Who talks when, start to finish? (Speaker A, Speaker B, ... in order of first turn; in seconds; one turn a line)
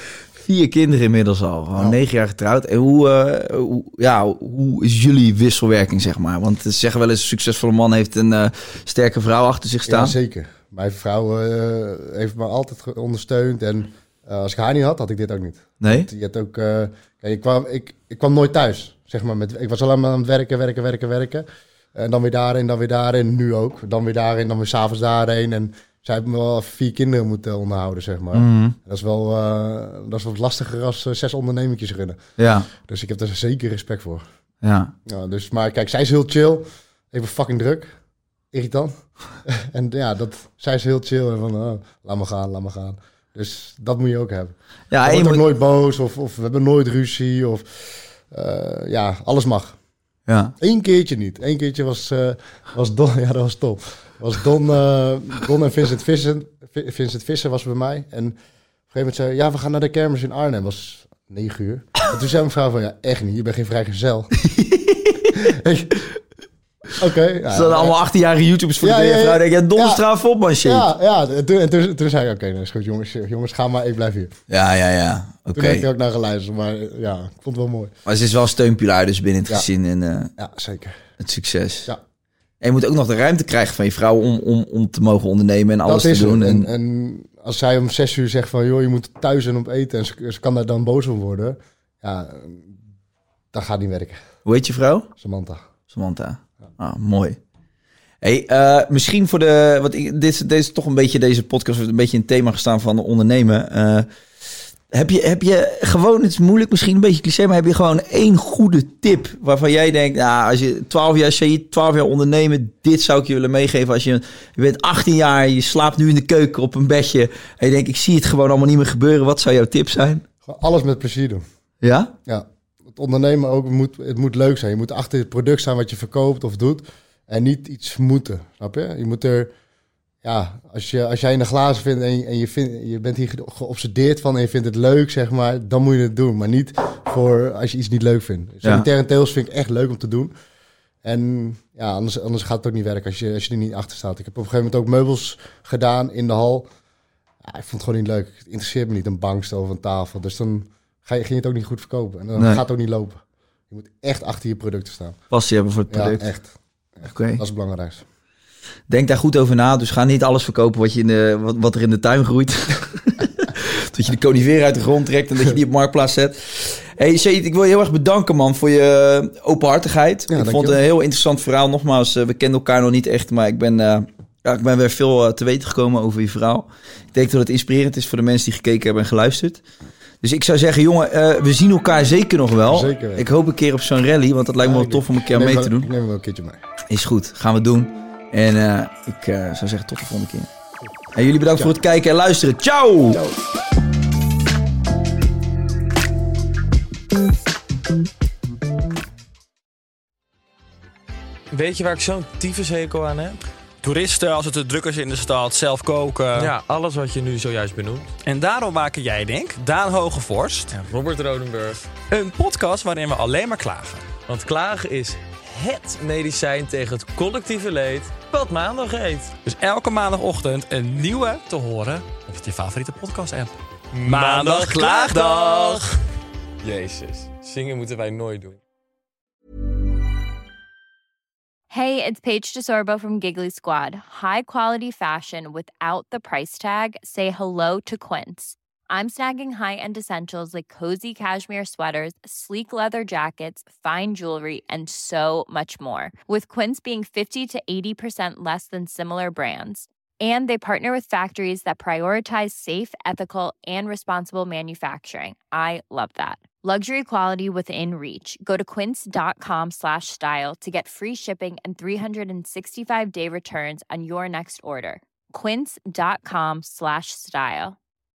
Speaker A: 0.4-10.1
Speaker B: 9.9-34.2
Speaker A: 15.8-16.1
Speaker A: 28.3-28.7
Speaker A: 32.4-32.7
Speaker A: 34.6-34.9
Speaker B: 35.0-38.0
Speaker B: 38.5-49.8
Speaker A: 44.9-45.4
Speaker A: 50.3-50.5
Speaker B: 50.6-58.4
Speaker B: 58.9-64.3
Speaker A: 64.4-65.4
Speaker B: 65.3-66.0
Speaker B: 67.0-68.0
Speaker A: 67.5-70.9
Speaker B: 68.8-70.0
Speaker B: 70.6-74.3
Speaker A: 74.5-75.9
Speaker B: 75.5-77.9
Speaker A: 78.0-80.3
Speaker B: 80.4-81.0
Speaker A: 81.2-81.9
Speaker A: 82.6-86.7
Speaker B: 85.8-92.8
Speaker B: 93.5-94.2
Speaker A: 94.5-95.1
Speaker B: 95.2-95.6
Speaker A: 95.9-97.4
Speaker A: 98.2-104.1
Speaker A: 104.9-120.2
Speaker B: 120.5-121.4
Speaker A: 121.8-122.1
Speaker B: 122.3-129.5
Speaker B: 130.2-140.3
Speaker B: 141.0-146.7
Speaker B: 147.4-155.2
Speaker A: 152.4-152.6
Speaker A: 155.3-156.3
Speaker B: 155.9-158.1
Speaker A: 157.0-157.4
Speaker A: 158.9-179.6
Speaker B: 170.3-170.8
Speaker A: 180.2-185.9
Speaker B: 182.7-183.3
Speaker B: 184.6-186.6
Speaker A: 186.9-190.5
Speaker A: 191.1-193.2
Speaker C: 201.5-203.4
Speaker D: 203.8-206.5
Speaker C: 206.3-208.1
Speaker D: 208.2-210.8
Speaker C: 210.7-211.9
Speaker D: 212.1-214.1
Speaker C: 214.3-219.4
Speaker D: 219.4-225.8
Speaker C: 223.9-225.9
Speaker C: 226.6-228.6
Speaker E: 231.7-267.8